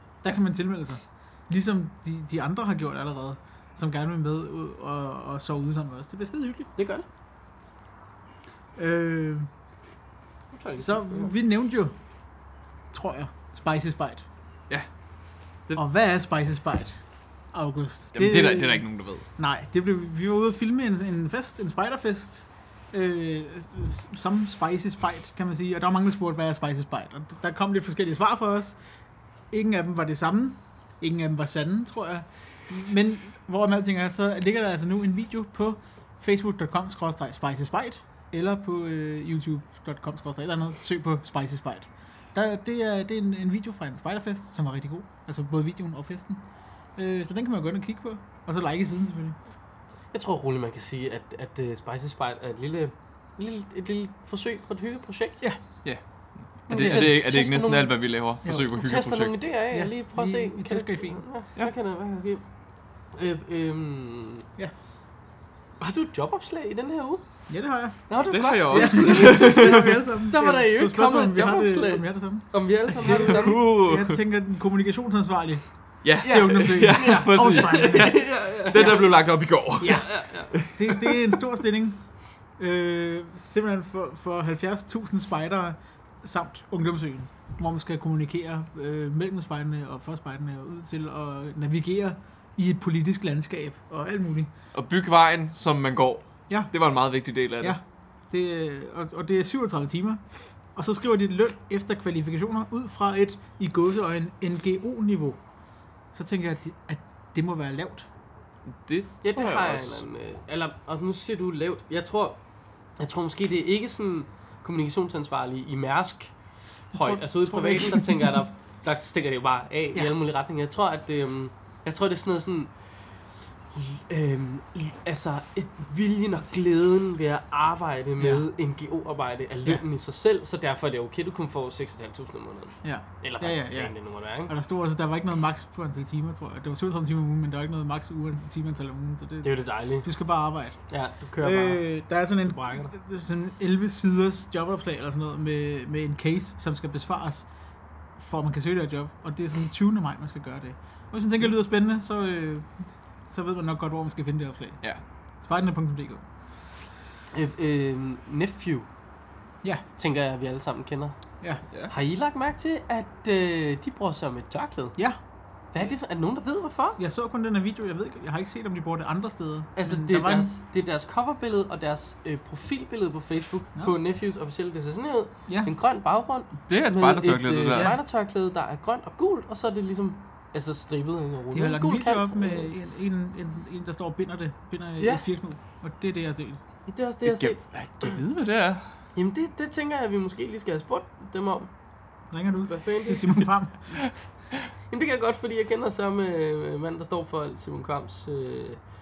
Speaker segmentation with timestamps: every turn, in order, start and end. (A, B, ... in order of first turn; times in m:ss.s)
0:00.2-0:06.7 A
0:06.8-0:07.0 B
0:08.8-0:09.5 A
0:10.5-0:11.3 B
0:10.8-0:11.9 A
0:12.9-0:14.2 A
0:15.8-0:16.9 A
0:17.5-0:28.8 A
0:18.1-0:19.2 C
0:29.5-0:46.4 A
0:47.0-0:49.4 A
0:50.1-0:55.4 B
0:56.6-0:59.4 C
0:56.7-0:58.0 B
0:56.7-0:57.2 A
0:58.5-1:02.4 B
0:59.7-1:01.2 A
1:03.1-1:04.4 B
1:05.8-1:07.2 B
1:07.5-1:08.0 A
1:08.1-1:13.6 B
1:08.3-1:10.0 C
1:08.7-1:15.6 A
1:13.0-1:14.2 C
1:16.0-1:21.4 C
1:16.2-1:19.0 A
1:16.2-1:19.3 B
1:19.8-1:22.0 A
1:19.8-1:20.5 B
1:22.6-1:34.5 A
1:34.7-1:37.8 C
1:37.6-1:40.2 A
1:40.7-1:45.4 A
1:46.1-1:48.0 A
1:48.7-1:50.0 C
1:49.2-1:52.4 B
1:53.0-1:56.3 B
1:56.9-2:02.7 B
1:56.9-1:58.4 A
2:03.7-2:14.5 B
2:08.2-2:08.4 A
2:12.8-2:13.9 A
2:14.5-2:20.8 A
2:19.4-2:20.1 B
2:20.9-2:21.9 B
2:21.4-2:27.5 A
2:22.4-2:22.9 B
2:28.2-2:32.7 A
2:33.3-2:34.8 A
2:35.4-2:36.2 A
2:37.3-2:38.9 B
2:40.0-2:41.1 B
2:41.9-2:45.0 B
2:45.7-2:47.0 B
2:47.0-2:50.5 A
2:49.8-3:02.7 B
2:56.7-2:58.0 C
3:01.5-3:06.6 A
3:05.0-3:05.2 B
3:06.9-3:08.2 B
3:07.2-3:08.8 C
3:09.1-3:11.7 B
3:12.3-3:14.0 A
3:12.7-3:13.4 B
3:14.9-3:18.8 B